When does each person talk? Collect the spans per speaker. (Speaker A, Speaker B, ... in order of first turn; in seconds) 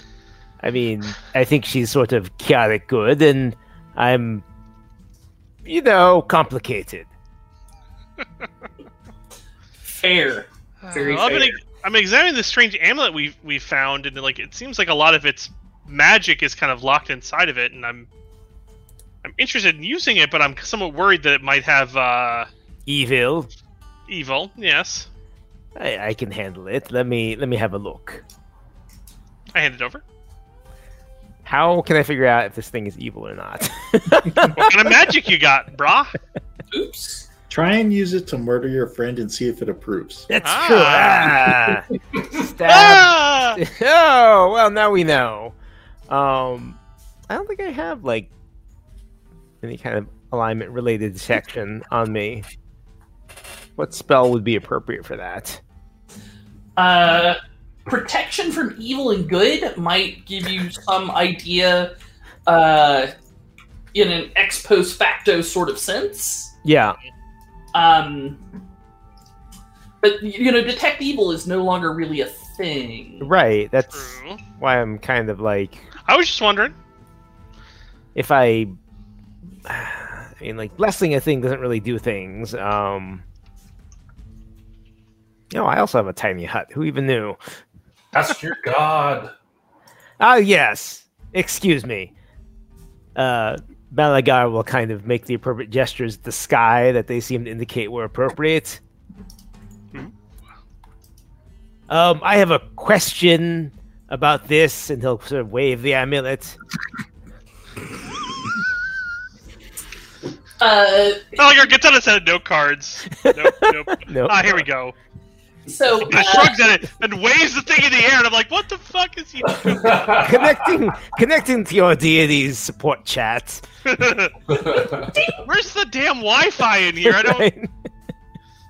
Speaker A: 0.6-4.4, 5.7-7.1, 22.9-23.5, 25.8-28.2, 31.4-34.8, 40.3-45.5, 46.1-46.8, 47.3-48.3, 49.6-52.5, 53.8-55.6, 66.7-67.0, 73.2-75.9, 78.2-78.8, 79.7-83.2, 85.5-87.4, 90.2-92.1, 93.2-98.8, 101.9-106.6, 113.1-114.7, 120.2-123.6, 127.0-127.7
Speaker B: 9.8-11.6, 36.7-37.3, 56.8-61.9, 62.5-63.1, 63.9-66.5, 67.7-68.4, 70.0-73.3, 110.6-111.7, 115.7-116.6, 125.1-125.4
Speaker C: 10.8-18.1, 19.2-22.5, 24.1-25.1, 29.5-30.0, 34.6-36.1, 40.4-41.4, 42.6-43.6, 73.9-74.4, 76.1-76.8, 111.4-115.0, 116.1-120.2, 123.9-124.3, 125.5-127.5
Speaker D: 37.5-40.3
Speaker E: 88.1-89.3, 119.5-120.7, 124.5-125.2